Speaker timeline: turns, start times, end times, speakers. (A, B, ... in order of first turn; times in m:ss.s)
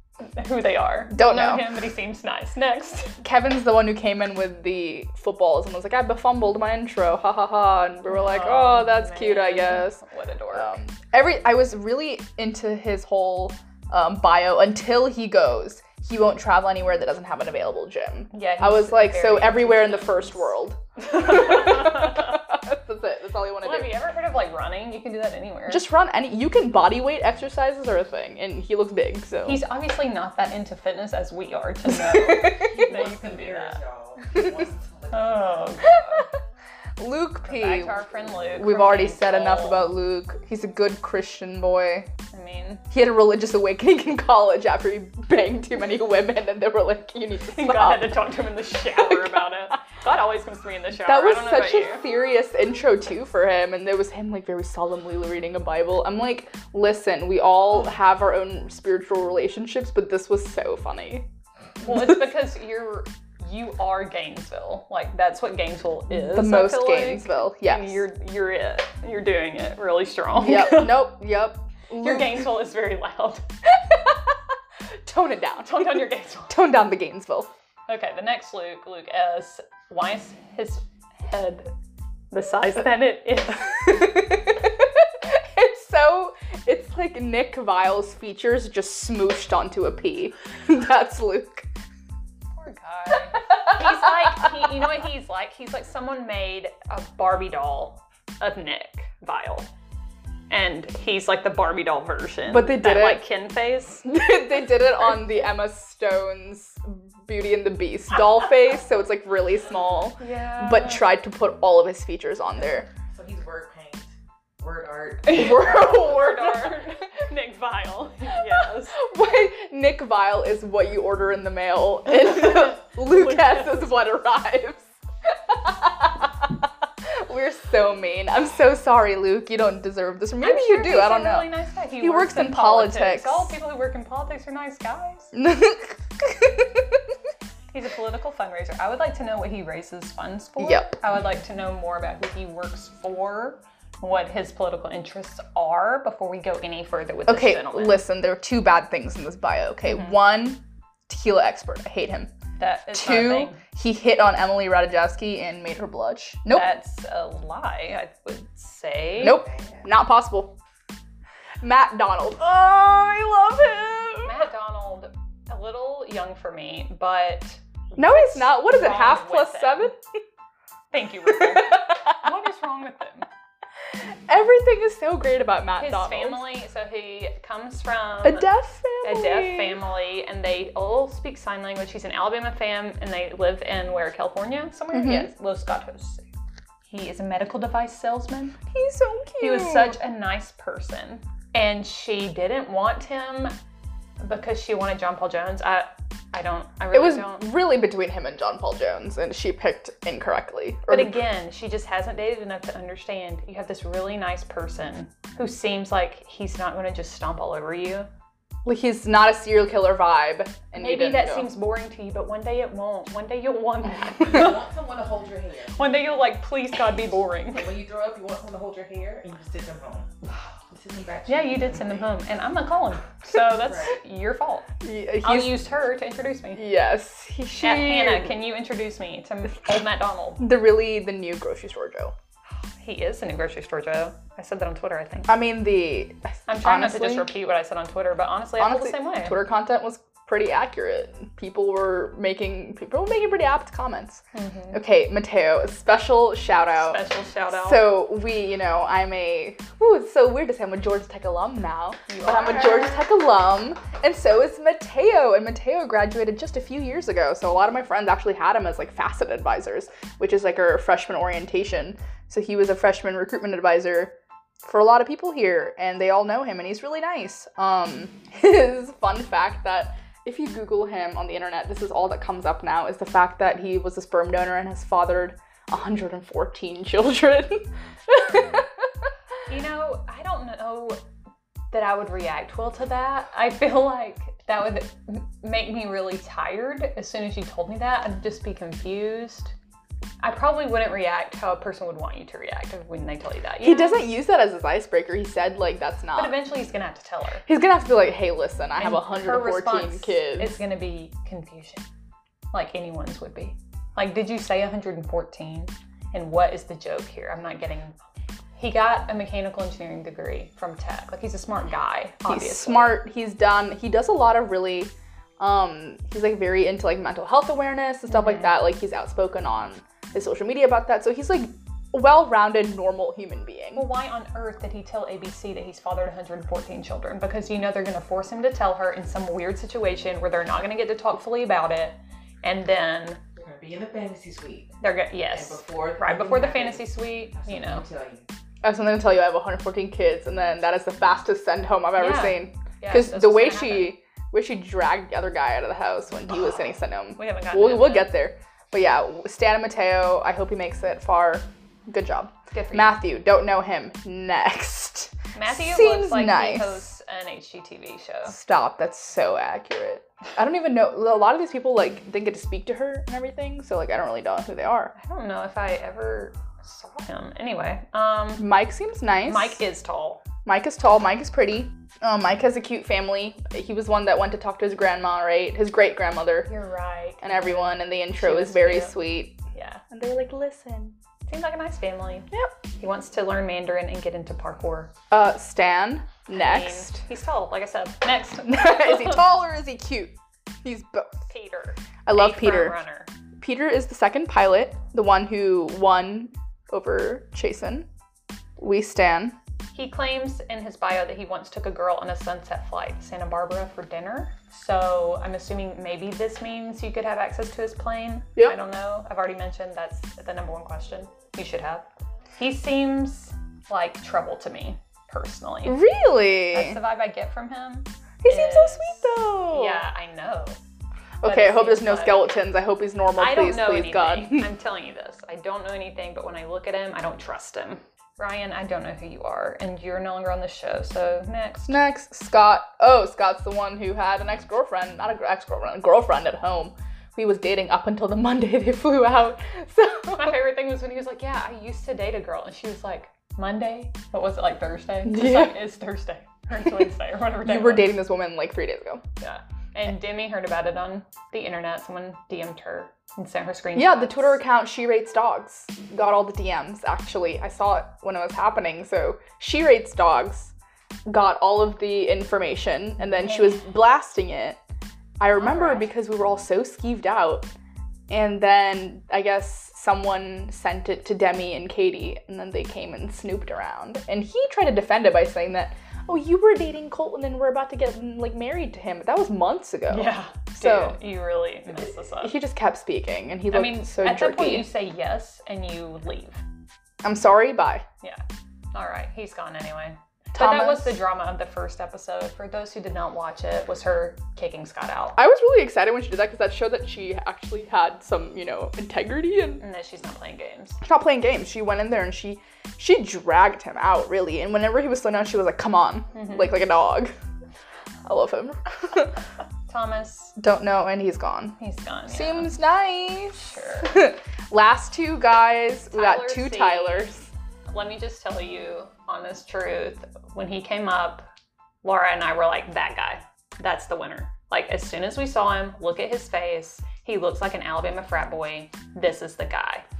0:00.2-0:03.2 A
0:01.1-0:01.7 B
0:03.2-0:10.0 B
0:08.1-0:10.8 A
0:10.5-0:23.9 B
0:18.3-0:20.4 A
0:21.1-0:22.3 A
0:23.6-0:25.8 A
0:25.7-0:29.6 B
0:29.4-0:33.8 A
0:31.9-0:32.7 B
0:32.5-0:35.8 C
0:35.1-0:36.3 A
0:35.8-0:36.2 B
0:37.0-0:42.1 B
0:37.4-0:39.9 A
0:42.3-0:42.8 A
0:42.9-0:48.2 B
0:47.5-0:52.0 A
0:48.9-0:49.4 B
0:51.0-1:01.2 B
1:01.8-1:11.1 A
1:06.1-1:08.0 B
1:10.4-1:12.4 B
1:12.0-1:13.4 A
1:13.7-1:14.3 B
1:15.0-1:17.5 B
1:15.6-1:16.6 A
1:17.9-1:21.7 A
1:22.3-1:23.9 A
1:23.7-1:31.7 B
1:32.5-1:39.7 A
1:40.5-1:44.1 A
1:42.5-1:43.2 B
1:44.0-1:52.9 B
1:50.2-1:51.1 A
1:53.1-1:56.6 C
1:55.3-1:56.5 B
1:55.4-1:59.0 A
1:58.3-2:13.5 B
2:03.2-2:03.6 A
2:10.4-2:15.3 A
2:15.3-2:17.0 B
2:17.7-2:28.0 A
2:20.6-2:20.9 B
2:27.3-2:32.3 B
2:32.6-2:33.6 A
2:32.9-2:36.7 B
2:36.5-2:39.4 A
2:39.2-2:40.5 B
2:39.2-2:39.8 C
2:41.6-2:44.4 B
2:44.2-2:49.9 A
2:48.0-2:50.0 B
2:50.9-2:53.3 A
2:51.4-2:52.1 B
2:53.9-2:56.4 B
2:55.8-2:58.5 A
2:58.2-2:59.8 B
2:59.0-3:06.2 A
3:04.9-3:05.3 B
3:06.9-3:08.6 A
3:08.7-3:10.0 B
3:09.4-3:13.5 A
3:14.2-3:17.5 A
3:16.9-3:21.2 B
3:20.9-3:28.1 A
3:28.6-3:31.5 B
3:30.8-3:34.6 A
3:34.2-3:36.0 C
3:35.7-3:37.7 A
3:37.5-3:40.1 C
3:40.7-3:42.1 C
3:41.3-3:44.6 A
3:43.6-3:43.9 C
3:44.8-3:45.6 B
3:45.2-3:46.7 A
3:46.5-3:48.4 B
3:47.6-3:50.5 A
3:50.4-3:52.1 B
3:52.8-3:55.3 A
3:55.3-3:57.3 B
3:56.5-3:59.4 A
3:58.6-4:07.0 B
4:04.3-4:04.8 A
4:06.8-4:07.9 A
4:07.6-4:39.0 B
4:12.1-4:12.9 A
4:39.5-4:41.0 A
4:41.7-4:49.5 A
4:50.2-4:54.1 A
4:53.6-4:56.4 B
4:56.1-4:57.4 A
4:57.4-5:00.6 B
4:58.8-5:01.8 A
5:02.5-5:07.9 A
5:08.6-5:13.0 A
5:12.3-5:23.8 B
5:18.1-5:18.4 A
5:23.7-5:33.2 A
5:33.4-5:34.8 C
5:34.8-5:37.8 A
5:35.3-5:38.2 C
5:38.6-5:56.8 B
5:42.0-5:43.9 A
5:47.2-5:48.1 A
5:52.5-5:53.0 A
5:55.3-5:58.4 A
5:58.3-6:04.9 B
6:04.9-6:08.5 A
6:08.4-6:09.6 B
6:09.2-6:10.2 A
6:10.4-6:16.5 B
6:16.5-6:19.0 A
6:17.2-6:19.4 B
6:19.5-6:19.8 A
6:19.9-6:21.0 B
6:21.2-6:24.9 A
6:25.1-6:27.0 B
6:26.3-6:29.2 A
6:28.4-6:31.3 B
6:31.3-6:33.1 A
6:32.0-6:32.8 B
6:33.4-6:37.9 B
6:38.6-6:39.4 B
6:39.7-6:55.8 A
6:55.6-6:56.8 B
6:56.5-7:00.6 A
6:58.2-6:59.8 B
7:01.2-7:04.5 B
7:01.2-7:02.3 A
7:03.2-7:11.8 A
7:11.6-7:20.4 B
7:20.1-7:27.9 A
7:25.0-7:25.5 B
7:27.4-7:29.0 B
7:29.2-7:34.4 A
7:33.7-7:40.5 B
7:41.1-7:44.6 B
7:45.2-7:47.5 B
7:45.3-7:45.9 A
7:48.1-8:01.0 B
7:59.9-8:02.4 A
8:02.2-8:04.7 B
8:03.5-8:06.4 A
8:07.0-8:07.8 B
8:08.0-8:15.2 A
8:10.4-8:11.0 B
8:15.2-8:19.6 B
8:19.6-8:20.8 A
8:20.8-8:27.1 B
8:26.1-8:26.5 A
8:28.0-8:29.2 B
8:29.7-8:30.4 A
8:30.4-8:31.6 B
8:31.6-8:32.6 A
8:32.1-8:37.3 B
8:33.3-8:34.0 A
8:35.9-8:37.1 A
8:37.7-8:41.2 A
8:41.8-8:49.8 A